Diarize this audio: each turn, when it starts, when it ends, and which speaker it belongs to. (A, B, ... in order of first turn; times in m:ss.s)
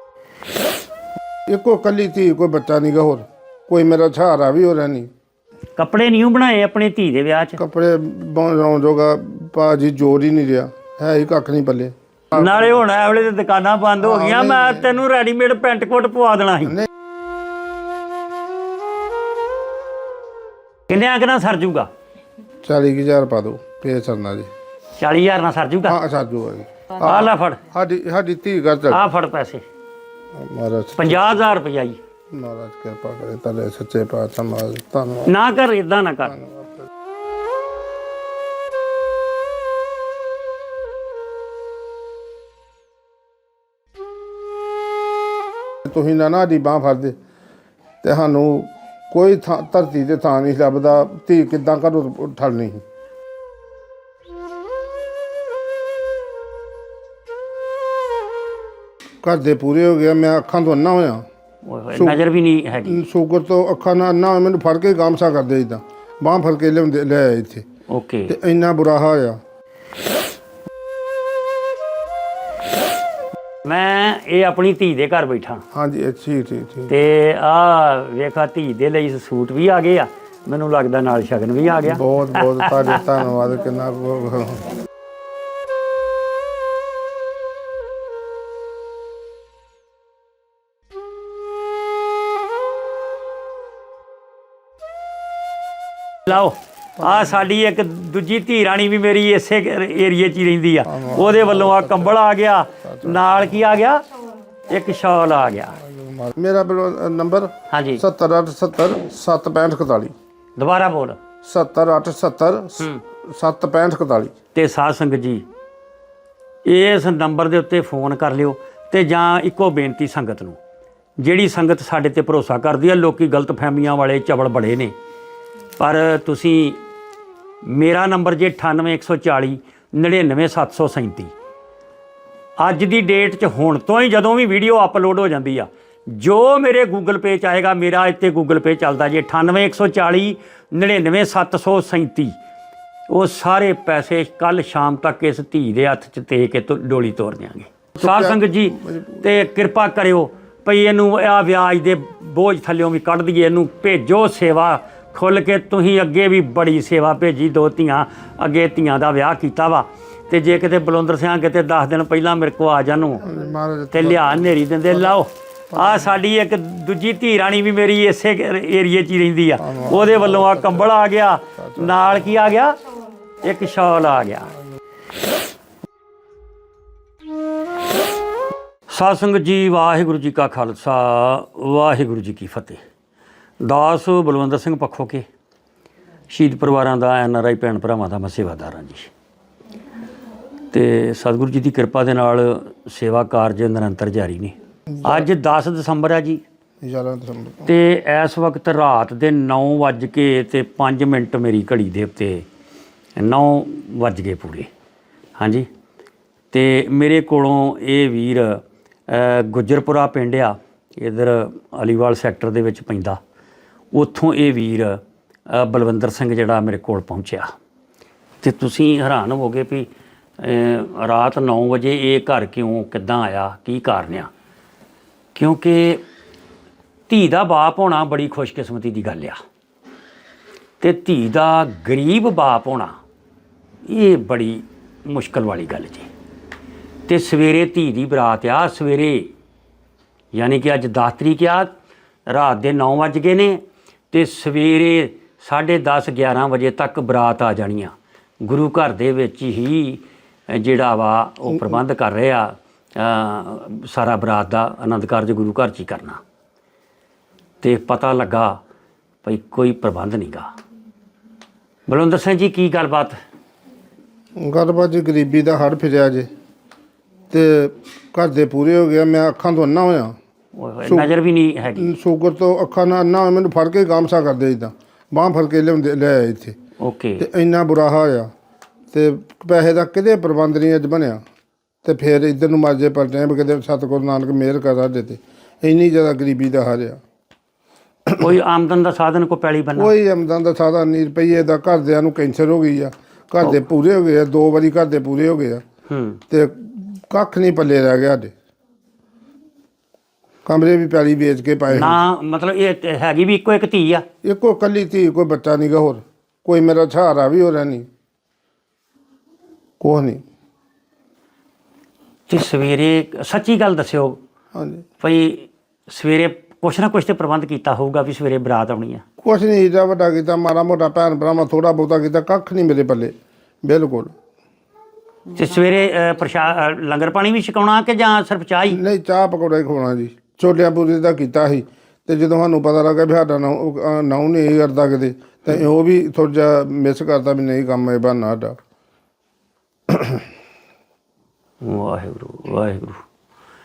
0:01.5-0:05.1 A
0:05.8-0:07.6 B
0:07.6-0:12.8 A
0:12.3-0:16.8 B
0:14.0-0:14.9 A
0:20.9-0:21.9 B
0:22.6-0:24.5 A
0:25.0-0:26.0 B
0:25.9-0:29.0 A
0:27.0-0:27.6 B
0:28.9-0:29.6 B
0:30.3-0:31.4 A
0:31.0-0:32.0 B
0:32.3-0:35.3 A
0:35.2-0:36.3 B
0:36.3-0:36.7 A
0:45.8-0:47.2 A
0:48.0-0:52.8 A
0:59.2-1:01.2 A
1:01.6-1:03.0 B
1:01.9-1:02.2 A
1:02.8-1:07.6 A
1:07.9-1:08.4 B
1:08.3-1:09.4 A
1:13.6-1:15.6 B
1:15.7-1:16.9 A
1:16.9-1:23.0 B
1:21.9-1:24.7 A
1:36.2-1:44.0 B
1:40.8-1:42.2 A
1:42.8-1:43.4 A
1:44.7-1:45.8 B
1:45.8-1:50.1 A
1:47.7-1:48.0 B
1:50.6-1:51.2 B
1:51.4-1:54.3 A
1:54.5-1:55.4 B
1:56.6-2:00.6 B
2:01.2-2:04.9 B
2:05.8-2:06.8 B
2:07.6-2:11.3 B
2:12.6-2:22.4 B
2:23.1-2:43.2 B
2:27.9-2:29.3 A
2:43.2-2:45.2 A
2:43.9-2:52.8 B
2:45.7-2:46.2 A
2:49.6-2:50.9 A
2:51.6-2:52.3 A
2:53.4-2:54.5 B
2:58.9-3:02.8 B
3:03.6-3:05.2 B
3:06.3-3:09.1 B
3:10.7-3:16.4 B
3:14.9-3:15.3 A
3:16.8-3:17.7 A
3:17.6-3:22.4 B
3:23.2-3:24.7 B
3:25.4-3:25.7 B
3:26.5-3:33.2 B
3:33.9-3:37.5 B
3:38.4-3:44.3 B
3:45.3-3:46.0 B
3:47.1-3:49.4 B
3:50.8-3:52.9 B
3:53.8-3:56.1 B
3:57.1-3:59.3 B
4:00.3-4:01.7 B
4:02.3-4:16.2 B
4:17.6-4:18.6 B
4:19.2-4:20.5 B
4:21.9-4:23.2 B
4:24.4-4:26.3 A
4:27.3-4:30.1 A
4:30.5-4:31.9 B
4:30.8-4:31.1 A
4:31.7-4:36.6 A
4:36.8-4:37.2 B
4:37.2-4:38.3 A
4:38.9-4:41.2 A
4:41.8-4:47.0 A
4:48.1-4:49.9 B
4:49.8-4:55.6 A
4:55.9-4:56.2 B
4:56.3-4:58.3 A
5:00.4-5:02.0 A
5:01.7-5:04.0 B
5:04.2-5:07.9 A
5:09.8-5:10.2 A
5:12.3-5:14.2 B
5:14.5-5:14.8 A
5:15.0-5:19.0 B
5:19.2-5:24.1 A
5:25.3-5:28.8 B
5:28.7-5:38.6 A
5:39.9-5:40.2 A
5:41.6-5:43.0 B